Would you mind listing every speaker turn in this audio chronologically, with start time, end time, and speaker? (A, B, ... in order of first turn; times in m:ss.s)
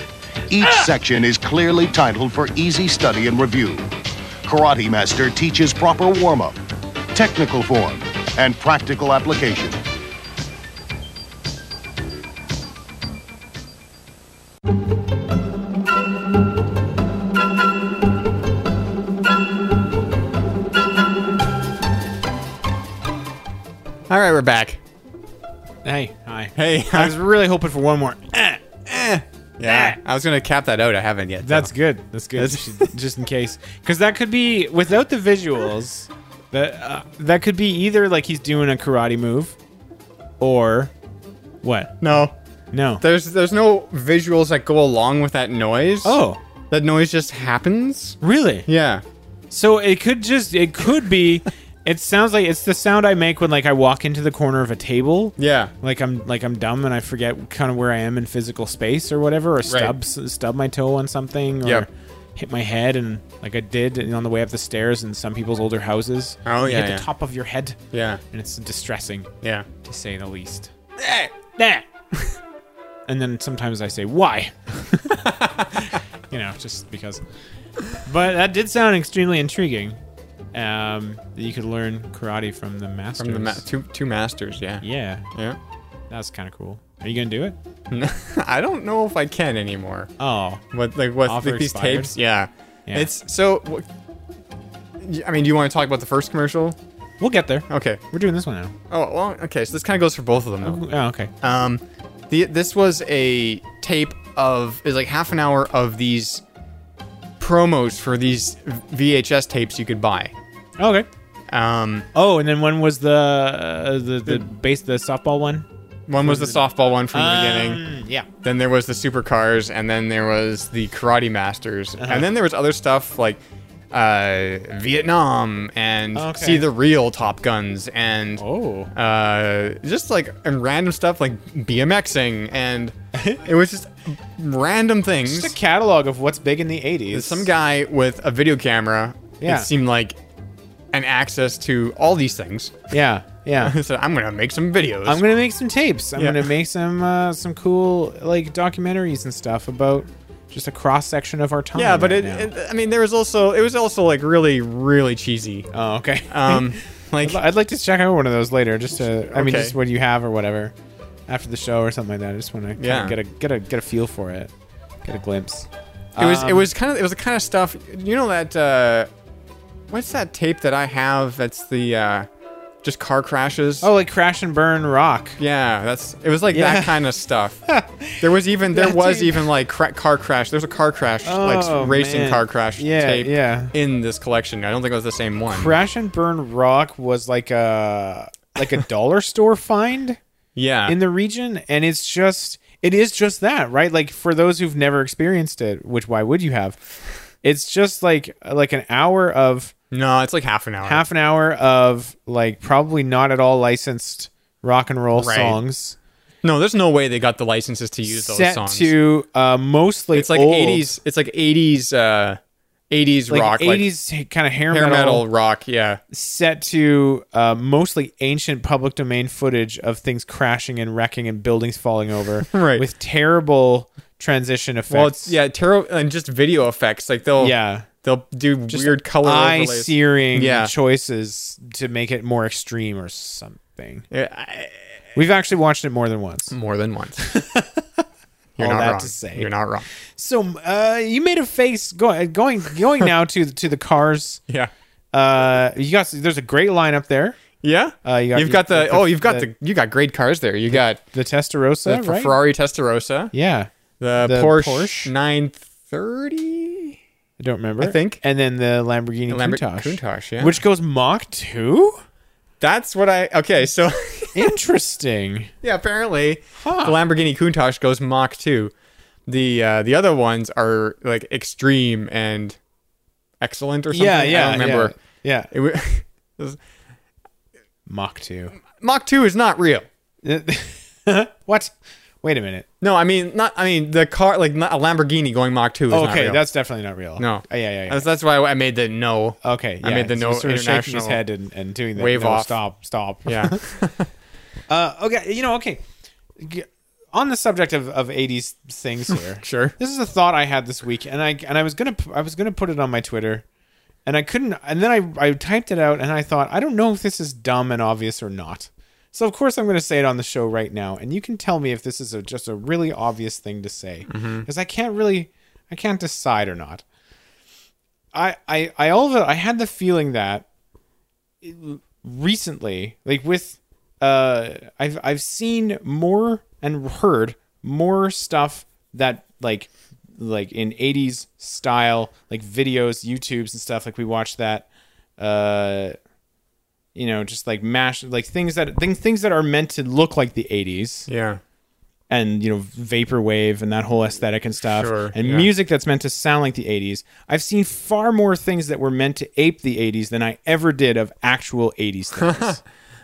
0:00.5-0:03.9 A
0:04.4-0:06.6 A
0:07.1-0:09.8 A
0:24.1-0:24.8 B
0:25.8-0:30.0 C
0:26.6-0:27.2 B
0:29.0-0:31.7 B
0:31.4-0:39.6 C
0:32.3-0:32.9 B
0:40.4-0:40.9 C
0:41.6-0:42.0 C
0:42.0-0:42.3 B
0:42.7-0:43.0 C
0:43.0-0:46.2 B
0:46.0-0:46.4 C
0:46.7-0:49.0 B
0:48.2-0:48.7 C
0:49.5-1:07.8 C
0:55.4-0:55.7 B
0:59.6-0:59.9 B
1:06.4-1:07.1 B
1:07.9-1:08.2 B
1:08.3-1:09.3 C
1:09.4-1:09.7 B
1:09.8-1:10.7 C
1:11.0-1:11.3 B
1:11.6-1:11.8 C
1:13.1-1:15.4 C
1:15.2-1:15.7 B
1:16.3-1:17.2 C
1:18.0-1:20.0 C
1:20.5-1:23.6 C
1:23.2-1:25.6 B
1:24.8-1:25.2 C
1:26.1-1:27.6 C
1:27.9-1:30.1 B
1:30.2-1:30.6 C
1:30.7-1:33.8 B
1:31.2-1:32.2 C
1:35.0-1:36.8 B
1:37.2-1:38.7 C
1:37.7-1:38.0 B
1:38.9-1:40.8 B
1:40.6-1:41.3 C
1:41.4-1:46.4 B
1:47.4-1:50.3 B
1:50.8-1:51.1 C
1:51.5-1:52.1 B
1:52.1-1:55.7 C
1:56.1-1:57.8 B
1:56.2-1:58.3 C
1:58.4-2:03.4 B
2:02.0-2:02.3 C
2:03.9-2:15.5 B
2:06.1-2:06.7 C
2:08.4-2:08.9 C
2:13.2-2:13.4 C
2:15.2-2:17.5 C
2:17.1-2:20.2 B
2:19.4-2:19.7 C
2:20.9-2:22.8 B
2:22.9-2:23.8 C
2:23.6-2:25.2 B
2:25.0-2:32.5 C
2:26.2-2:26.5 B
2:31.7-2:35.7 B
2:35.7-2:40.7 C
2:36.3-2:37.4 B
2:39.1-2:39.8 B
2:41.3-2:44.5 C
2:42.8-2:43.2 B
2:45.0-2:46.7 C
2:46.2-2:49.1 B
2:49.9-2:52.3 B
2:52.8-2:53.9 B
2:53.8-2:55.4 C
2:55.4-2:57.6 B
2:56.5-2:57.1 C
2:57.6-2:59.5 C
2:58.2-3:05.7 B
3:01.2-3:03.7 C
3:05.5-3:10.2 C
3:10.6-3:11.0 B
3:10.9-3:16.8 C
3:17.4-3:19.7 C
3:19.9-3:21.0 B
3:20.8-3:26.0 C
3:25.2-3:25.6 B
3:26.4-3:28.9 B
3:28.0-3:30.9 C
3:30.1-3:32.4 B
3:32.9-3:33.9 B
3:33.3-3:35.2 C
3:34.7-3:36.0 B
3:36.1-3:45.4 C
3:42.5-3:42.8 B
3:44.9-3:50.7 B
3:47.4-3:47.9 C
3:48.7-3:54.1 C
3:54.1-3:54.7 B
3:55.1-3:56.5 C
3:56.5-3:57.2 B
3:57.2-3:58.0 C
3:58.6-3:59.9 B
3:58.6-3:59.5 C
4:00.1-4:04.4 C
4:05.1-4:07.4 C
4:07.6-4:11.0 B
4:08.0-4:09.5 C
4:10.7-4:12.4 C
4:11.8-4:13.3 B
4:13.3-4:15.1 C
4:14.0-4:17.0 B
4:17.4-4:22.0 C
4:17.8-4:18.2 B
4:19.3-4:20.6 B
4:22.6-4:24.5 B
4:24.3-4:25.5 C
4:25.6-4:28.7 B
4:26.6-4:27.0 C
4:29.3-4:32.6 B
4:33.4-4:34.9 B
4:33.9-4:35.5 C
4:35.5-4:36.6 B
4:37.8-4:38.6 C
4:38.8-4:39.8 B
4:40.2-4:42.6 C
4:42.8-4:46.5 B
4:45.9-4:48.1 C
4:47.2-4:51.2 B
4:49.4-4:53.6 C
4:52.0-4:52.6 B
4:53.2-4:54.1 B
4:54.7-4:55.8 C
4:56.4-5:03.4 C
4:59.4-4:59.7 B
5:04.0-5:16.8 C
5:14.1-5:14.5 B
5:18.1-5:20.4 C
5:21.4-5:36.0 C
5:36.9-5:41.1 C
5:41.1-5:41.4 B
5:42.1-5:52.6 C
5:44.7-5:45.5 B
5:52.1-5:52.6 B